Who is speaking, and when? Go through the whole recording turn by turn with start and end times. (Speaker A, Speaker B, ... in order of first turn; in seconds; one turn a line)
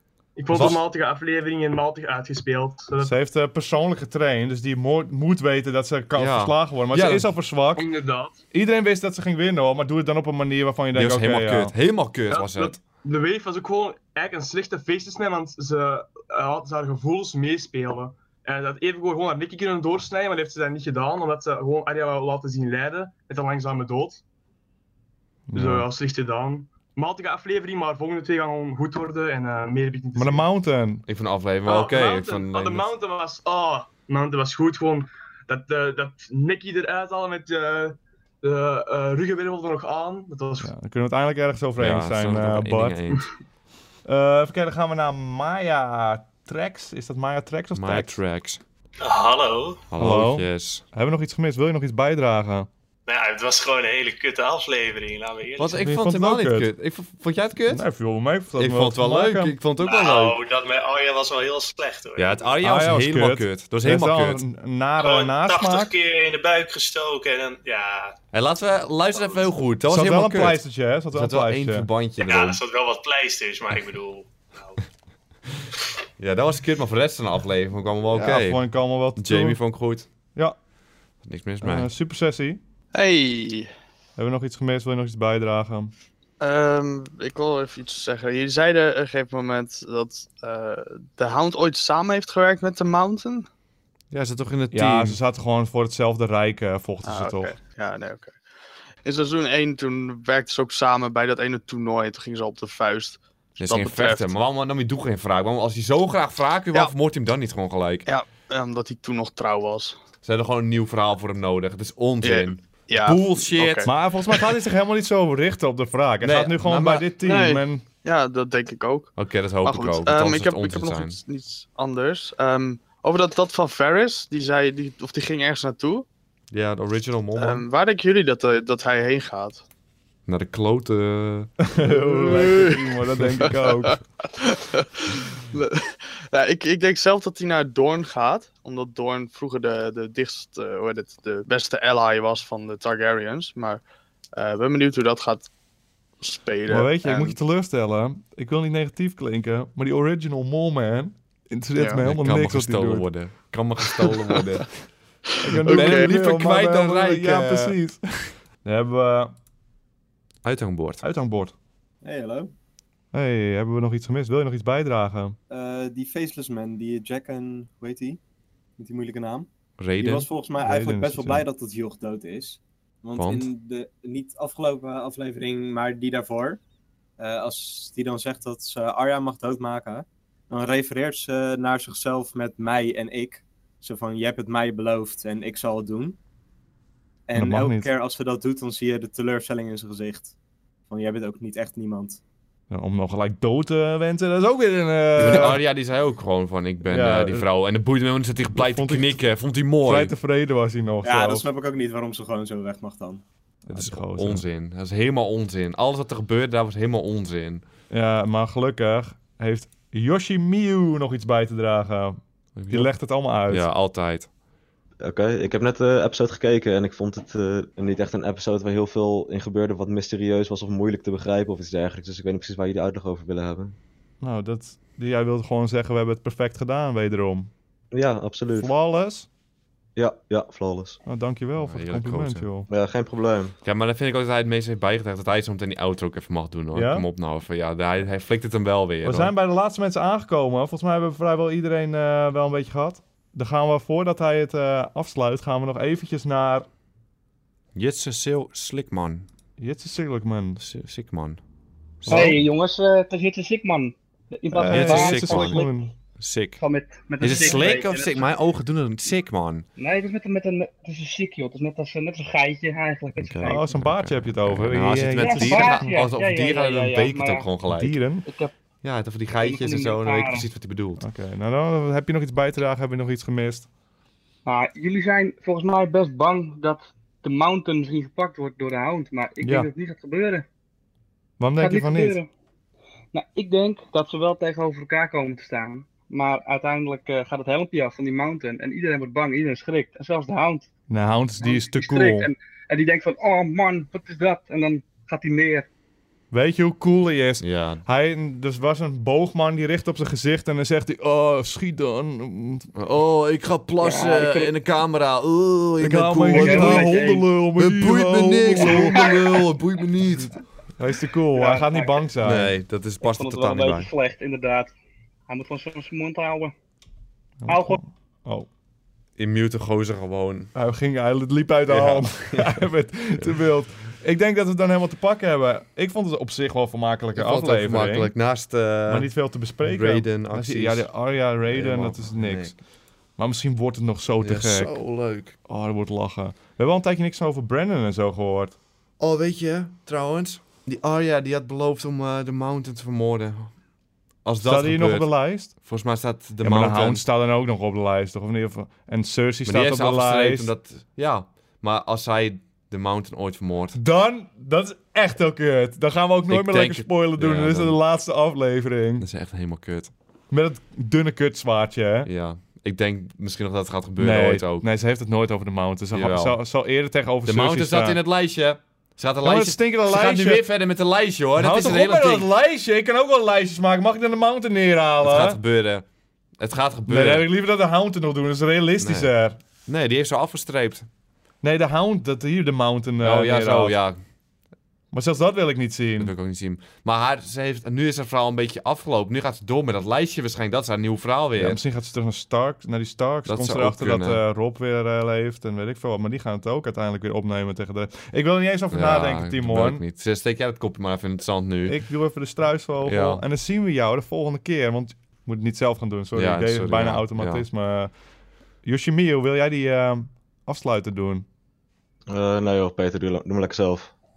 Speaker A: 0.4-3.2
Speaker B: 0.5-0.8
Speaker C: 3.0-7.9
Speaker B: 6.2-7.3
Speaker A: 7.8-8.4
Speaker C: 8.5-11.7
Speaker B: 10.9-12.8
Speaker A: 12.3-24.2
Speaker C: 25.5-25.9
Speaker A: 25.5-30.5
Speaker C: 30.2-31.1
Speaker B: 31.1-32.9
Speaker A: 31.6-40.7
Speaker C: 40.6-43.0
Speaker B: 41.8-43.3
Speaker C: 44.1-48.2
Speaker B: 47.7-48.6
Speaker D: 49.0-49.8
Speaker B: 49.9-50.8
Speaker C: 50.0-52.7
Speaker D: 53.1-55.8
Speaker B: 55.6-57.8
Speaker C: 55.8-56.7
Speaker C: 57.7-59.6
Speaker B: 58.5-60.4
Speaker D: 59.8-62.5
Speaker B: 62.2-64.4
Speaker C: 62.6-65.9
Speaker D: 65.0-68.1
Speaker B: 68.3-72.6
Speaker D: 69.1-69.5
Speaker C: 69.8-71.9
Speaker D: 72.2-74.8
Speaker B: 76.2-78.6
Speaker C: 78.1-79.6
Speaker B: 79.2-80.1
Speaker B: 81.2-81.9
Speaker C: 81.6-82.6
Speaker E: 82.9-83.7
Speaker C: 84.2-85.9
Speaker E: 86.4-93.5
Speaker B: 94.1-95.2
Speaker C: 94.7-97.5
Speaker E: 97.0-98.4
Speaker E: 99.0-104.3
Speaker B: 103.6-108.1
Speaker E: 108.1-110.0
Speaker B: 110.2-113.9
Speaker E: 112.2-113.9
Speaker C: 113.8-117.8
Speaker B: 116.2-117.1
Speaker E: 117.2-119.1
Speaker B: 119.2-121.2
Speaker E: 119.6-126.1
Speaker B: 126.5-127.6
Speaker E: 127.4-129.6
Speaker B: 130.3-131.5
Speaker C: 131.7-134.0
Speaker E: 131.9-132.8
Speaker E: 134.4-143.8
Speaker E: 144.4-145.5
Speaker E: 146.2-147.4
Speaker C: 146.7-153.1
Speaker E: 151.8-152.0
Speaker B: 152.0-154.7
Speaker C: 155.4-159.3
Speaker E: 155.6-156.1
Speaker B: 155.7-157.8
Speaker B: 160.4-161.0
Speaker C: 161.0-161.5
Speaker F: 162.0-162.5
Speaker C: 163.1-165.4
Speaker F: 165.5-168.2
Speaker F: 168.8-169.5
Speaker B: 169.8-170.3
Speaker F: 170.0-176.6
Speaker C: 170.6-171.4
Speaker B: 173.2-173.5
Speaker F: 177.2-186.2
Speaker F: 187.3-190.3
Speaker C: 187.3-187.9
Speaker F: 190.9-192.2
Speaker C: 192.7-195.6
Speaker B: 195.2-200.1
Speaker C: 196.9-197.5
Speaker C: 198.6-199.2
Speaker C: 199.8-201.5
Speaker F: 201.0-203.2
Speaker C: 203.7-204.5
Speaker B: 203.7-207.6
Speaker C: 207.9-212.2
Speaker B: 212.6-212.9
Speaker C: 212.7-213.7
Speaker B: 213.5-214.3
Speaker G: 215.0-223.8
Speaker C: 224.2-227.5
Speaker G: 227.9-228.7
Speaker C: 228.6-229.3
Speaker G: 230.0-231.0
Speaker C: 231.1-232.7
Speaker B: 231.6-232.5
Speaker G: 232.7-233.6
Speaker B: 233.6-239.3
Speaker C: 236.7-237.1
Speaker C: 239.0-246.7
Speaker B: 247.8-249.3
Speaker C: 249.6-250.6
Speaker B: 250.6-251.4
Speaker B: 252.0-252.4
Speaker H: 252.1-255.7
Speaker C: 252.1-252.4
Speaker C: 254.6-255.9
Speaker B: 254.7-255.6
Speaker B: 256.2-256.6
Speaker H: 256.6-258.3
Speaker B: 257.2-259.6
Speaker H: 259.8-263.7
Speaker B: 263.2-268.0
Speaker C: 263.4-266.1
Speaker H: 265.1-267.5
Speaker C: 267.7-268.3
Speaker H: 268.2-268.5
Speaker B: 268.8-271.0
Speaker H: 269.4-270.5
Speaker C: 271.0-273.7
Speaker H: 274.4-280.5
Speaker C: 279.4-279.7
Speaker C: 281.4-282.2
Speaker H: 281.6-282.3
Speaker H: 283.1-290.7
Speaker C: 290.9-292.3
Speaker H: 291.4-295.7
Speaker C: 296.3-302.7
Speaker B: 297.4-297.8
Speaker B: 302.8-306.9
Speaker H: 303.8-304.5
Speaker C: 305.8-309.1
Speaker H: 306.3-307.3
Speaker B: 307.6-310.4
Speaker H: 308.6-309.1
Speaker C: 310.8-312.5
Speaker H: 311.3-312.0
Speaker B: 312.2-313.9
Speaker H: 313.0-314.7
Speaker H: 315.3-316.5
Speaker C: 317.4-318.5
Speaker H: 317.5-317.8
Speaker B: 319.2-320.5
Speaker C: 320.6-328.1
Speaker B: 321.7-322.7
Speaker B: 327.2-329.1
Speaker C: 328.9-332.6
Speaker B: 329.6-330.9
Speaker B: 331.5-332.6
Speaker C: 333.2-334.8
Speaker B: 334.2-335.4
Speaker C: 335.5-338.6
Speaker B: 339.0-343.5
Speaker B: 344.2-347.1
Speaker C: 344.4-345.5
Speaker C: 346.4-350.5
Speaker B: 349.5-353.8
Speaker C: 353.8-359.1
Speaker B: 356.3-357.8
Speaker B: 359.0-359.9
Speaker C: 360.3-362.1
Speaker B: 362.0-364.7
Speaker C: 364.0-368.0
Speaker B: 365.9-366.4
Speaker B: 367.2-372.3
Speaker C: 369.2-370.4
Speaker C: 371.4-375.4
Speaker B: 375.0-375.8
Speaker B: 376.4-377.3
Speaker C: 376.9-379.4
Speaker B: 378.8-379.1
Speaker B: 379.7-380.9
Speaker C: 381.4-383.8
Speaker B: 383.0-384.0
Speaker C: 384.9-386.1
Speaker B: 386.0-391.6
Speaker C: 391.4-399.8
Speaker B: 393.3-394.2
Speaker B: 398.7-401.8
Speaker C: 401.6-407.9
Speaker B: 402.8-403.2
Speaker B: 406.1-407.4
Speaker C: 408.6-411.3
Speaker G: 412.1-413.9